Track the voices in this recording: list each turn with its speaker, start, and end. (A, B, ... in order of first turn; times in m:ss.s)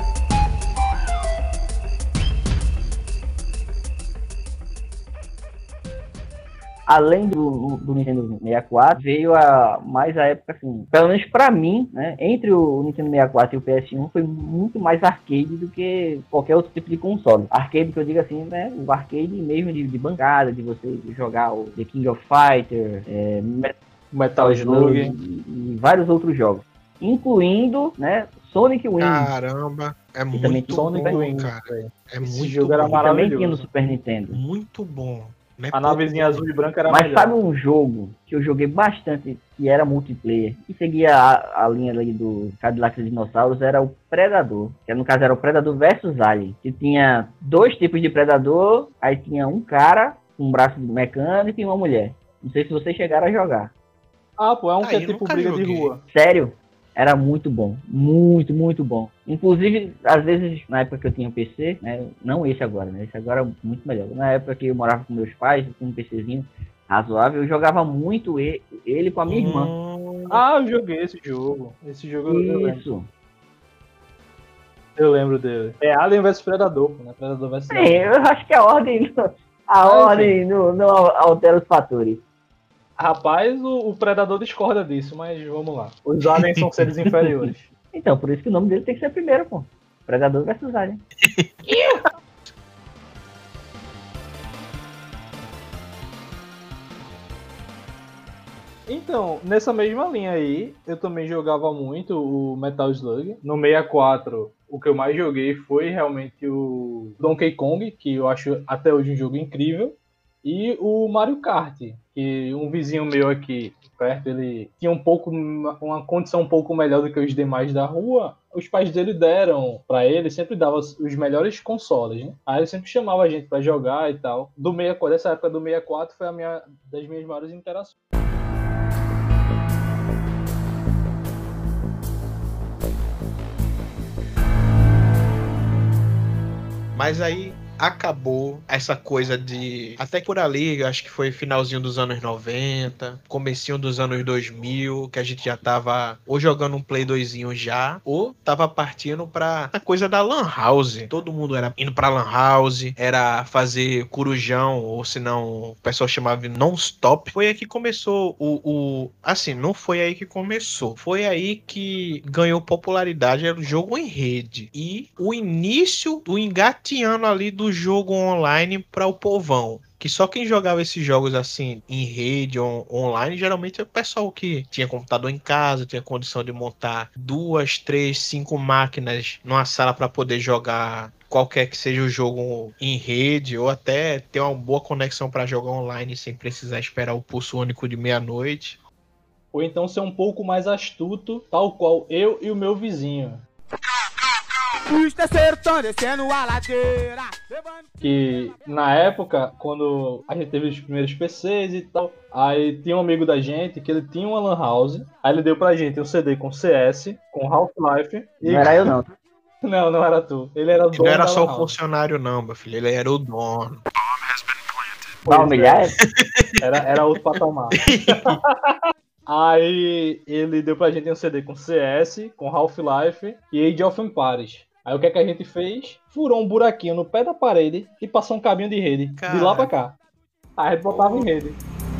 0:06.9-0:23.8 A
0:24.1-0:25.1 B
0:24.4-0:29.3 A
0:29.0-0:33.0 C
0:30.3-0:31.2 A
0:30.6-0:33.7 B
0:32.9-0:34.4 A
0:34.3-0:36.4 C
0:35.7-0:37.3 B
0:36.9-0:53.7 A
0:54.4-0:56.0 B
0:54.8-0:55.9 C
0:56.1-1:09.7 A
1:09.3-1:10.4 C
1:10.3-1:12.8 B
1:12.3-1:13.1 A
1:15.0-1:18.1 B
1:17.7-1:22.2 A
1:19.8-1:20.4 B
1:23.0-1:27.7 B
1:26.4-1:27.0 C
1:27.9-1:31.0 A
1:31.2-1:32.0 C
1:38.9-2:08.0 B
2:17.0-3:08.8 C
3:09.5-3:13.4 B
3:14.9-3:16.9 D
3:18.0-3:29.0 B
3:28.4-3:29.1 A
3:29.6-3:31.8 B
3:30.9-3:33.8 C
3:35.2-3:35.9 B
3:35.2-3:36.0 A
3:36.1-3:36.6 C
3:36.6-3:50.0 B
3:37.8-3:38.4 C
3:49.2-3:49.7 C
3:50.6-3:51.6 B
3:50.9-3:51.3 C